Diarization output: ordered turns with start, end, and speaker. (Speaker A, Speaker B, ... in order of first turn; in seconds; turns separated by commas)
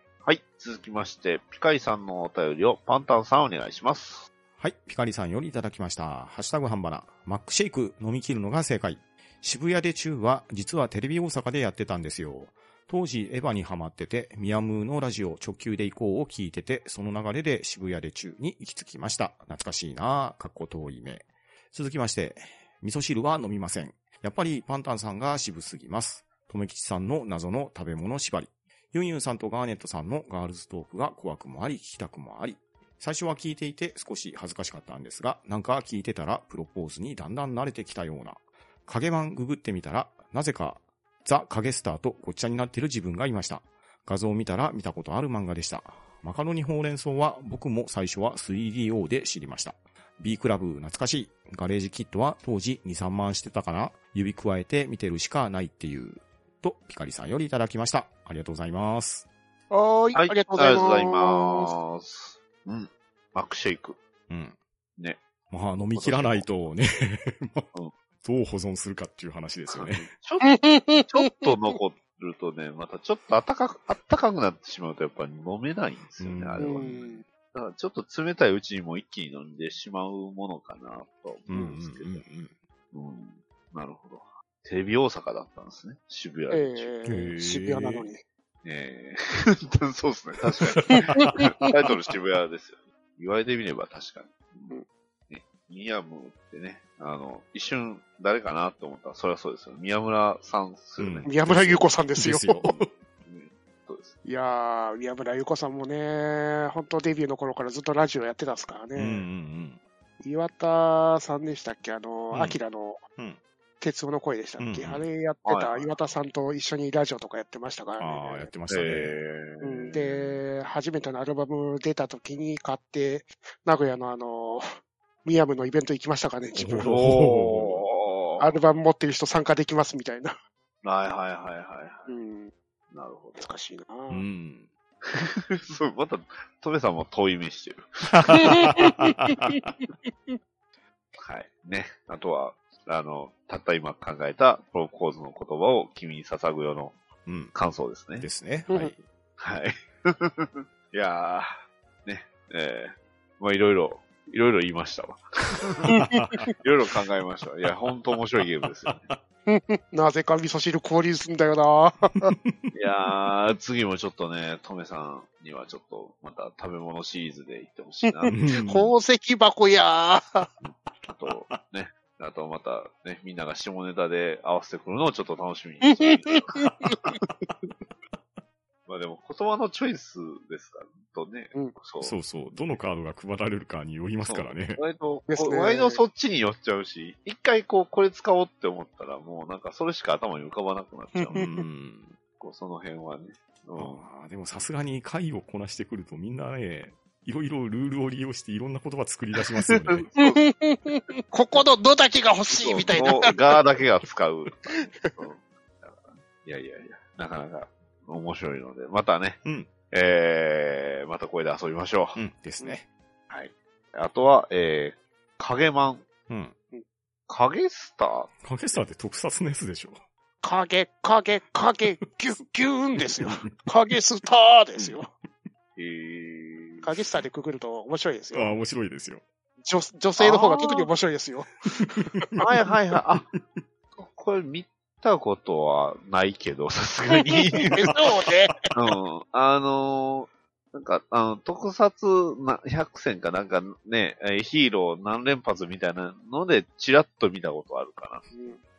Speaker A: 0.2-4.3, Speaker B: 4.6-59.3, Speaker C: 59.7-61.7, Speaker A: 60.1-64.0, Speaker B: 64.3-64.6, Speaker A: 65.0-65.2, Speaker B: 65.5-67.7, Speaker A: 65.9-66.5, Speaker B: 68.2-70.1, Speaker A: 69.7-82.2, Speaker C: 70.4-71.5, Speaker B: 76.2-76.8, Speaker C: 76.6-77.2, Speaker B: 81.5-82.5, Speaker A: 82.9-86.9, Speaker C: 86.5-88.2, Speaker B: 87.1-88.1, Speaker A: 88.6-94.8, Speaker B: 90.7-91.7, Speaker C: 90.9-91.7, Speaker A: 95.3-101.4, Speaker B: 101.0-102.9, Speaker C: 101.2-102.7, Speaker A: 103.2-104.2, Speaker C: 104.2-109.3, Speaker B: 109.0-109.8, Speaker C: 110.2-113.0, Speaker B: 112.3-112.6, Speaker C: 113.8-118.5, Speaker B: 114.6-115.1, Speaker A: 115.5-115.9, Speaker B: 118.0-119.2, Speaker A: 118.7-120.4, Speaker C: 119.6-124.7, Speaker C: 125.2-127.0, Speaker B: 126.5-127.9, Speaker A: 126.8-128.5, Speaker C: 128.4-130.4, Speaker A: 130.8-132.1, Speaker C: 132.1-132.5, Speaker A: 132.9-133.5, Speaker C: 133.4-134.2, Speaker B: 134.1-134.7, Speaker A: 135.1-138.7, Speaker B: 138.1-139.7, Speaker C: 138.3-140.4, Speaker A: 141.2-147.0, Speaker B: 147.3-147.5, Speaker A: 147.5-148.3, Speaker B: 148.2-149.0, Speaker A: 149.4-155.9, Speaker B: 155.8-156.5, Speaker C: 155.9-156.5, Speaker A: 156.6-159.1, Speaker B: 158.8-159.2, Speaker C: 159.5-162.3, Speaker B: 162.4-162.7, Speaker A: 162.7-168.4, Speaker C: 168.1-170.5, Speaker B: 168.3-168.9, Speaker A: 170.6-177.7, Speaker B: 171.3-171.6, Speaker C: 175.9-177.0, Speaker A: 178.9-182.2, Speaker B: 182.0-184.8, Speaker A: 184.2-191.5, Speaker C: 185.3-186.0, Speaker C: 191.1-191.6, Speaker B: 191.3-192.2, Speaker A: 192.4-194.1, Speaker B: 193.8-200.1, Speaker A: 199.4-200.4, Speaker C: 200.2-203.3, Speaker A: 202.5-212.7, Speaker B: 202.9-203.3, Speaker C: 204.8-205.2, Speaker B: 212.2-212.9, Speaker A: 213.3-216.1, Speaker B: 216.3-216.6, Speaker A: 217.3-218.3, Speaker B: 218.4-220.0, Speaker C: 220.4-225.1, Speaker B: 223.0-223.7, Speaker A: 225.8-226.9, Speaker C: 226.8-228.6, Speaker B: 228.3-229.2, Speaker C: 229.7-232.3, Speaker A: 230.2-230.9, Speaker B: 231.8-232.4, Speaker A: 232.4-233.3, Speaker B: 233.2-233.6, Speaker A: 234.0-238.1, Speaker C: 237.1-238.7, Speaker A: 238.7-248.3, Speaker C: 248.3-248.6